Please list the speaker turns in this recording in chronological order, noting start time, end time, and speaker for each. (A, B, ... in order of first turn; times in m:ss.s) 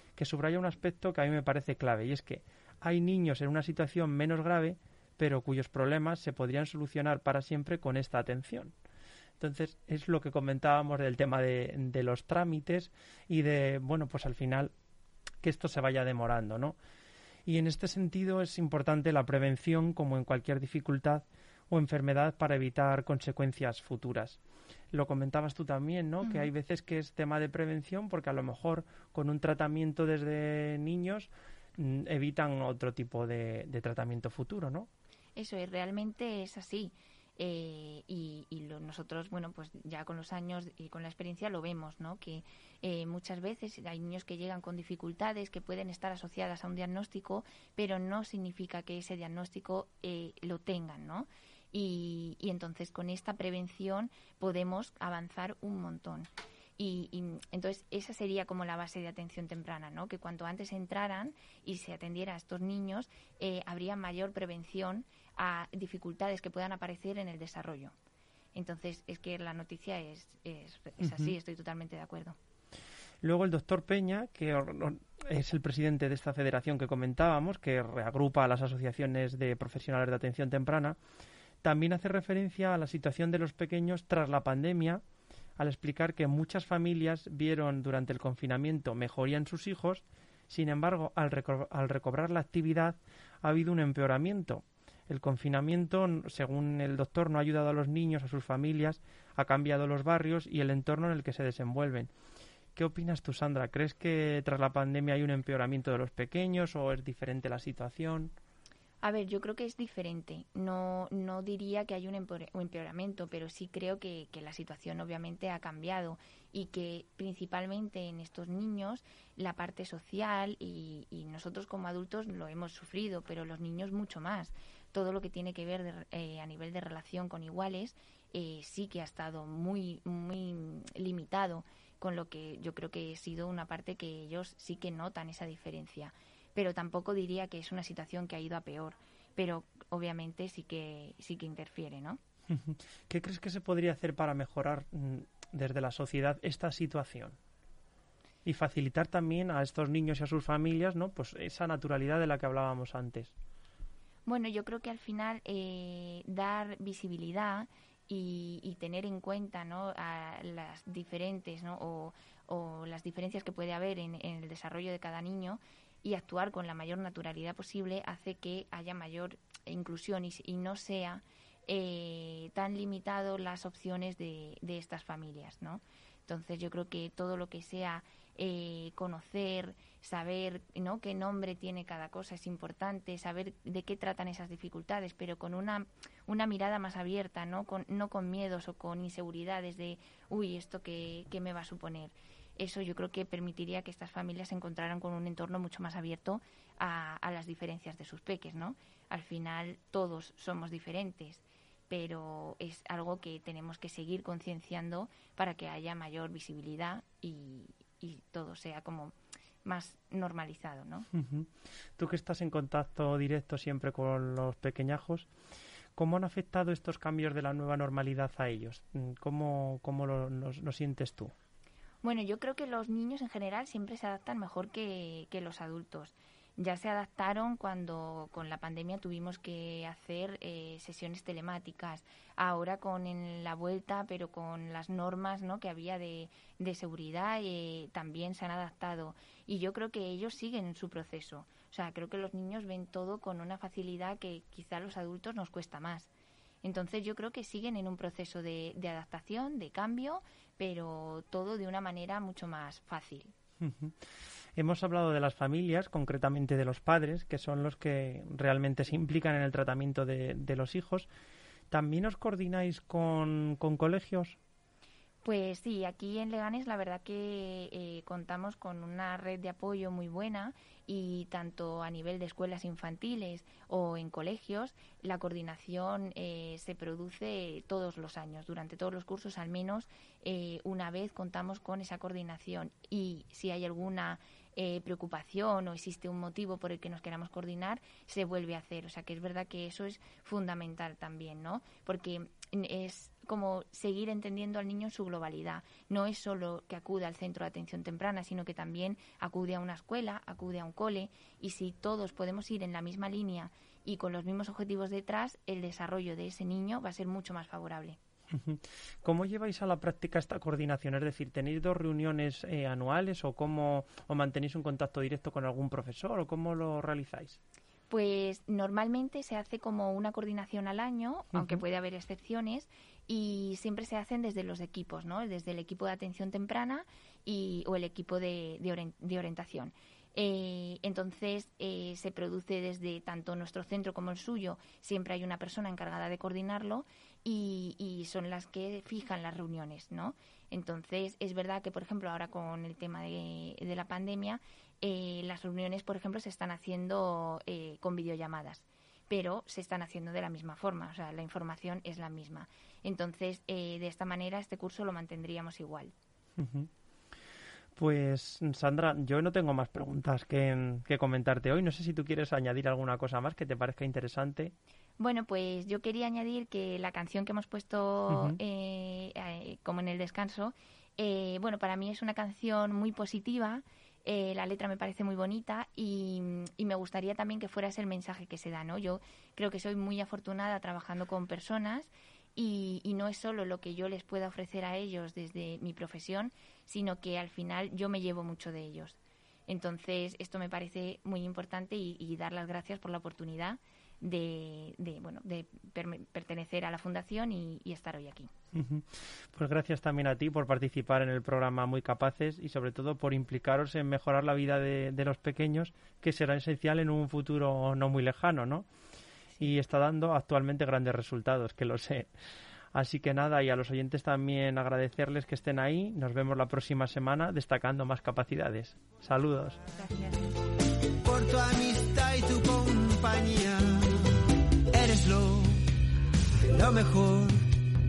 0:00.2-0:08.7 A
0:09.4-0:14.7 A
0:15.4-0:16.8 A
0:17.4-0:24.4 A
0:24.9-0:34.9 A
0:26.2-0:26.5 B
0:35.4-1:07.9 B
1:08.5-1:12.4 B
1:11.0-1:11.3 A
1:13.2-1:21.0 A
1:21.6-1:25.0 A
1:25.6-1:42.1 A
1:42.7-1:48.3 A
1:49.0-2:22.2 B
2:22.5-2:27.4 A
2:28.4-2:33.3 A
2:34.3-3:29.1 B
3:29.6-3:31.1 B
3:31.1-3:35.3 A
3:36.0-3:41.3 A
3:42.0-4:06.1 B
4:06.6-4:13.3 B
4:13.6-4:14.0 A
4:14.6-4:21.1 A
4:21.7-4:24.4 A
4:25.2-5:08.0 B
5:08.3-5:17.4 A
5:17.9-5:55.9 B
5:21.3-5:21.6 A
5:56.4-5:56.7 A
5:57.8-6:04.5 A
6:05.0-6:38.3 B
6:08.1-6:08.4 A
6:38.5-6:48.7 A
6:49.4-6:52.1 A
6:52.7-6:59.6 A
6:59.8-7:00.3 B
7:01.0-7:05.6 C
7:06.3-7:07.5 C